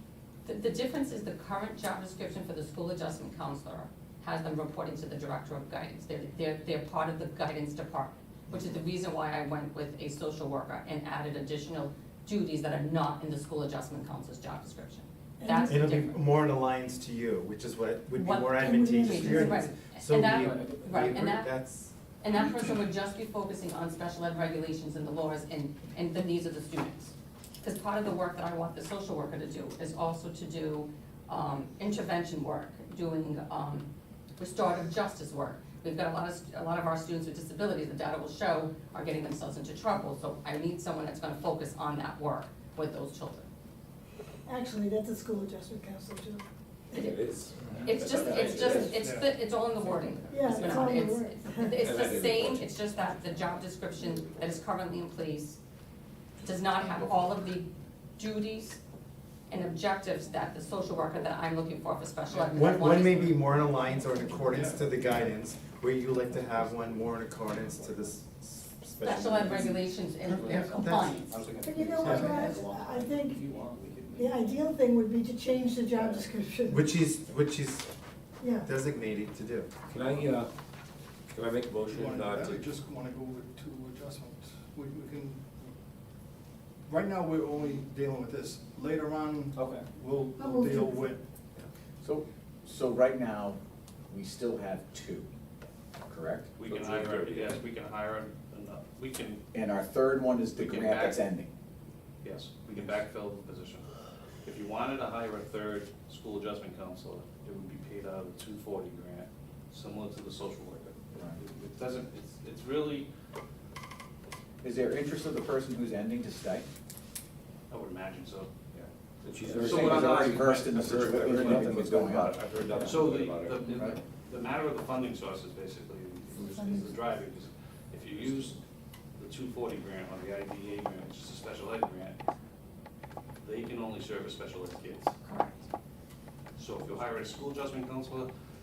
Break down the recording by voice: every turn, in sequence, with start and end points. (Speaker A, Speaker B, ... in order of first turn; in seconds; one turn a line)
Speaker A: 0.4-16.2
Speaker B: 15.4-15.8
Speaker C: 15.7-22.0
Speaker B: 18.1-19.7
Speaker A: 18.2-43.5
Speaker D: 20.4-20.8
Speaker B: 44.5-47.1
Speaker A: 46.9-47.2
Speaker E: 46.9-49.0
Speaker F: 47.6-49.4
Speaker A: 47.8-55.6
Speaker B: 48.6-49.0
Speaker B: 50.3-51.9
Speaker E: 51.7-53.5
Speaker A: 56.4-58.8
Speaker A: 59.5-63.7
Speaker C: 62.6-71.0
Speaker F: 64.3-65.1
Speaker A: 69.0-71.4
Speaker D: 70.4-74.7
Speaker B: 71.6-73.4
Speaker F: 72.0-72.5
Speaker B: 74.1-77.0
Speaker D: 75.9-76.3
Speaker C: 76.7-77.9
Speaker B: 78.4-78.7
Speaker C: 78.6-79.7
Speaker E: 79.9-80.5
Speaker E: 81.3-82.7
Speaker F: 81.8-85.7
Speaker F: 86.9-91.2
Speaker D: 89.5-89.9
Speaker B: 90.3-91.1
Speaker G: 92.0-93.6
Speaker G: 94.1-95.3
Speaker G: 96.0-96.5
Speaker H: 96.6-99.4
Speaker E: 96.6-97.6
Speaker G: 99.5-101.5
Speaker H: 100.5-101.3
Speaker H: 102.2-103.9
Speaker H: 104.4-113.1
Speaker G: 114.6-116.7
Speaker H: 117.7-118.5
Speaker E: 119.2-123.8
Speaker G: 119.5-123.1
Speaker H: 119.6-120.8
Speaker D: 119.7-120.2
Speaker H: 121.3-121.6
Speaker H: 122.8-128.6
Speaker D: 123.6-123.9
Speaker B: 126.3-127.2
Speaker H: 129.2-132.2
Speaker H: 133.4-135.2
Speaker A: 135.2-135.6
Speaker H: 136.6-138.3